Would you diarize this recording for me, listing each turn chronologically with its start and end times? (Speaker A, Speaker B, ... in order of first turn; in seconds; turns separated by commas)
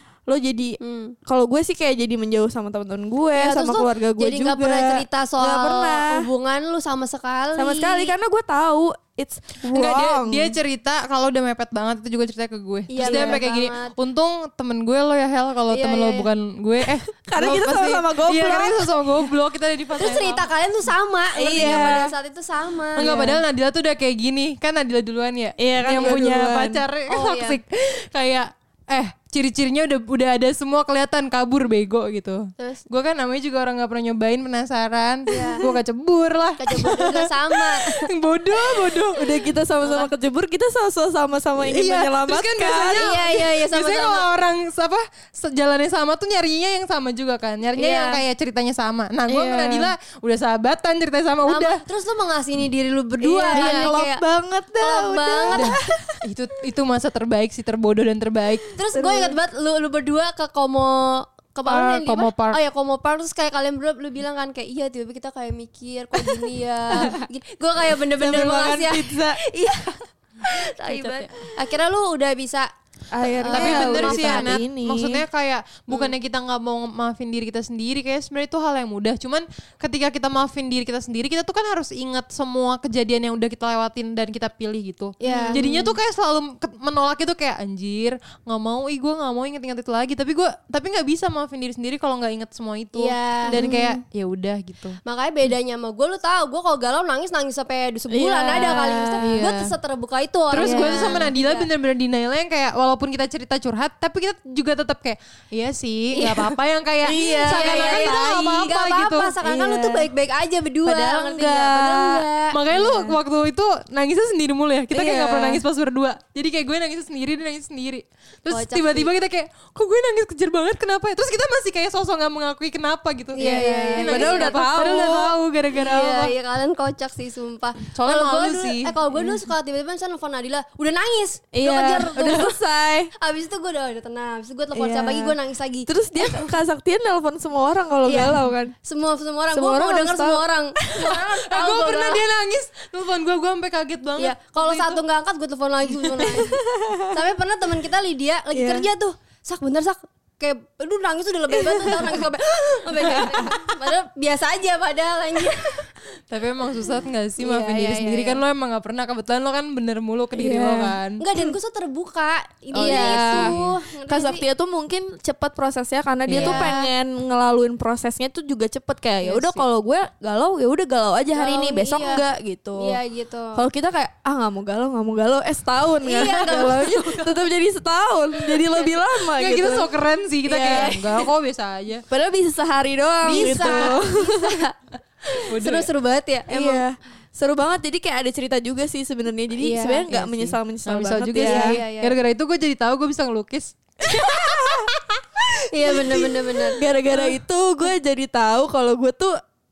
Speaker A: 0.3-6.3, Speaker B: 0.8-1.1, Speaker B: 3.3-8.2, Speaker A: 7.5-10.6, Speaker C: 9.7-20.5, Speaker B: 12.9-13.9, Speaker A: 13.0-13.4, Speaker B: 15.7-16.3, Speaker A: 17.1-19.3, Speaker B: 20.0-23.4, Speaker A: 21.4-22.1, Speaker C: 21.6-22.0, Speaker C: 22.9-39.5, Speaker A: 23.0-23.4, Speaker A: 25.6-26.8, Speaker B: 27.1-27.6, Speaker B: 32.6-32.8, Speaker B: 35.3-35.6, Speaker B: 36.6-38.0, Speaker A: 39.0-43.2, Speaker B: 39.8-40.1, Speaker C: 41.6-51.8, Speaker B: 43.0-44.3, Speaker B: 47.7-48.2, Speaker A: 49.3-49.9, Speaker B: 51.4-54.2, Speaker A: 53.2-56.2, Speaker C: 53.5-54.0, Speaker B: 54.8-55.8, Speaker C: 55.5-58.7, Speaker B: 58.8-72.7, Speaker A: 58.9-59.4, Speaker C: 61.6-62.6, Speaker A: 66.2-67.2, Speaker A: 68.0-69.4, Speaker A: 70.8-71.5, Speaker A: 73.1-75.2, Speaker B: 73.2-74.6, Speaker C: 73.5-95.0, Speaker B: 85.2-85.6, Speaker A: 85.2-86.0, Speaker B: 92.9-93.6, Speaker A: 93.5-94.0, Speaker B: 95.0-101.7, Speaker A: 98.1-99.4, Speaker C: 99.2-99.7, Speaker C: 100.5-109.3, Speaker A: 100.6-101.3, Speaker B: 106.1-106.5, Speaker A: 107.0-108.7, Speaker B: 107.2-112.6, Speaker A: 109.4-110.1, Speaker A: 110.8-113.2, Speaker C: 112.5-126.3, Speaker A: 114.9-115.6, Speaker B: 118.5-119.1, Speaker B: 123.3-124.6, Speaker A: 123.4-125.4, Speaker B: 125.7-132.6, Speaker C: 127.9-129.5, Speaker A: 131.5-133.1, Speaker B: 133.2-136.5, Speaker A: 134.7-138.7, Speaker B: 138.0-142.2, Speaker A: 139.5-141.2, Speaker C: 141.0-145.0, Speaker B: 144.2-155.8, Speaker C: 146.1-146.4, Speaker A: 146.2-147.1, Speaker A: 148.5-148.9, Speaker A: 151.5-152.2, Speaker A: 152.9-153.7, Speaker C: 153.0-153.3, Speaker C: 156.3-161.2, Speaker B: 157.4-158.4, Speaker A: 160.3-161.5, Speaker B: 161.2-164.4, Speaker C: 162.7-163.8, Speaker A: 162.7-173.0, Speaker C: 166.2-166.6, Speaker B: 166.4-166.9, Speaker B: 169.2-169.6, Speaker B: 171.3-172.2, Speaker B: 172.8-173.6, Speaker A: 173.5-179.9, Speaker B: 176.0-177.2, Speaker C: 176.6-177.3, Speaker B: 178.3-178.9, Speaker C: 179.2-182.0, Speaker A: 180.4-181.0, Speaker B: 180.7-181.1, Speaker A: 182.1-184.6, Speaker C: 183.2-184.0, Speaker B: 183.2-184.7, Speaker B: 185.3-186.8, Speaker C: 185.4-185.9, Speaker A: 186.5-191.8, Speaker B: 189.6-190.0, Speaker C: 190.1-195.2, Speaker B: 191.3-192.2, Speaker A: 194.1-194.9, Speaker B: 195.7-196.8, Speaker A: 195.9-199.4, Speaker C: 197.0-197.4